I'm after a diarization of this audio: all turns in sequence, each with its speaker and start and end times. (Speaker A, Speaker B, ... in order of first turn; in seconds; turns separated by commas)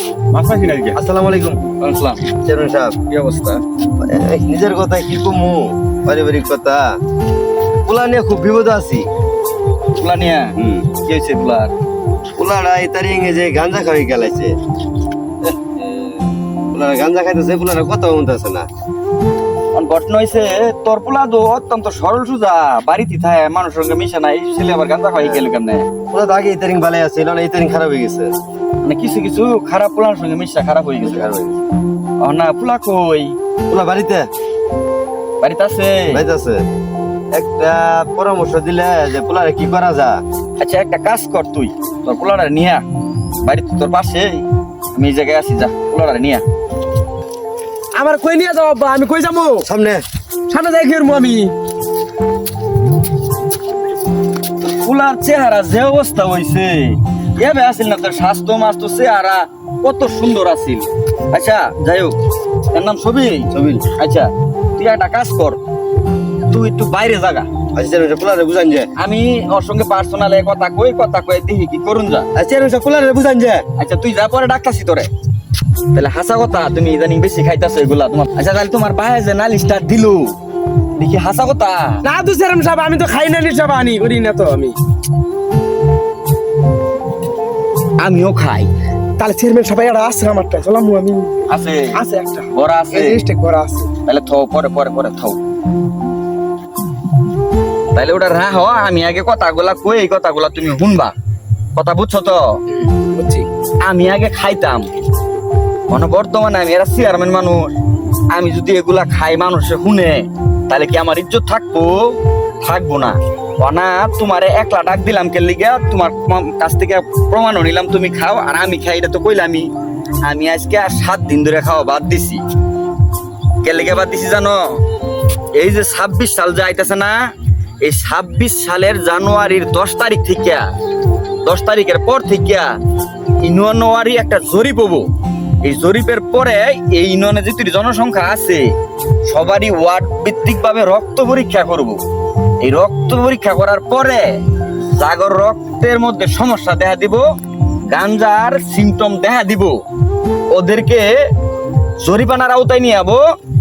Speaker A: 0.3-1.0, Speaker B: 1.0-1.6, Speaker A: 1.8-2.3, Speaker B: 2.5-3.0, Speaker A: 3.1-3.6, Speaker B: 4.0-6.9, Speaker B: 7.9-9.1, Speaker A: 10.0-11.7, Speaker B: 10.6-10.9, Speaker B: 12.4-14.6, Speaker B: 16.7-18.7, Speaker A: 19.7-25.9, Speaker B: 26.1-28.3, Speaker A: 28.8-31.3, Speaker B: 31.1-31.6, Speaker A: 32.2-33.3, Speaker B: 33.7-34.3, Speaker A: 35.4-36.2, Speaker B: 36.1-36.6, Speaker B: 37.3-40.2, Speaker A: 40.6-42.8, Speaker A: 43.4-44.4, Speaker A: 45.0-46.4, Speaker C: 48.0-49.7, Speaker B: 49.7-50.0, Speaker C: 50.5-51.5, Speaker A: 54.6-62.2, Speaker A: 62.7-65.6, Speaker B: 63.5-63.8, Speaker A: 66.5-67.5, Speaker B: 67.8-68.9, Speaker A: 69.0-72.3, Speaker B: 72.3-73.6, Speaker A: 73.8-75.1, Speaker A: 75.9-80.3, Speaker A: 81.0-82.0, Speaker C: 82.0-84.8, Speaker A: 88.0-88.7, Speaker C: 89.2-91.4, Speaker A: 91.5-91.9, Speaker C: 92.0-93.9, Speaker A: 92.5-93.2, Speaker A: 94.1-95.4, Speaker A: 98.0-101.1, Speaker A: 101.8-102.4, Speaker C: 102.8-103.5, Speaker A: 103.8-104.9, Speaker A: 105.9-107.6, Speaker A: 108.3-112.0, Speaker A: 112.6-119.7, Speaker A: 120.2-122.4, Speaker A: 123.6-124.6, Speaker A: 125.6-127.2, Speaker A: 127.8-130.6, Speaker A: 131.4-132.7, Speaker A: 133.4-135.1, Speaker A: 135.6-138.6, Speaker A: 139.3-142.0, Speaker A: 142.6-144.3, Speaker A: 145.0-147.2, Speaker A: 147.9-149.7, Speaker A: 150.5-151.1, Speaker A: 152.0-153.2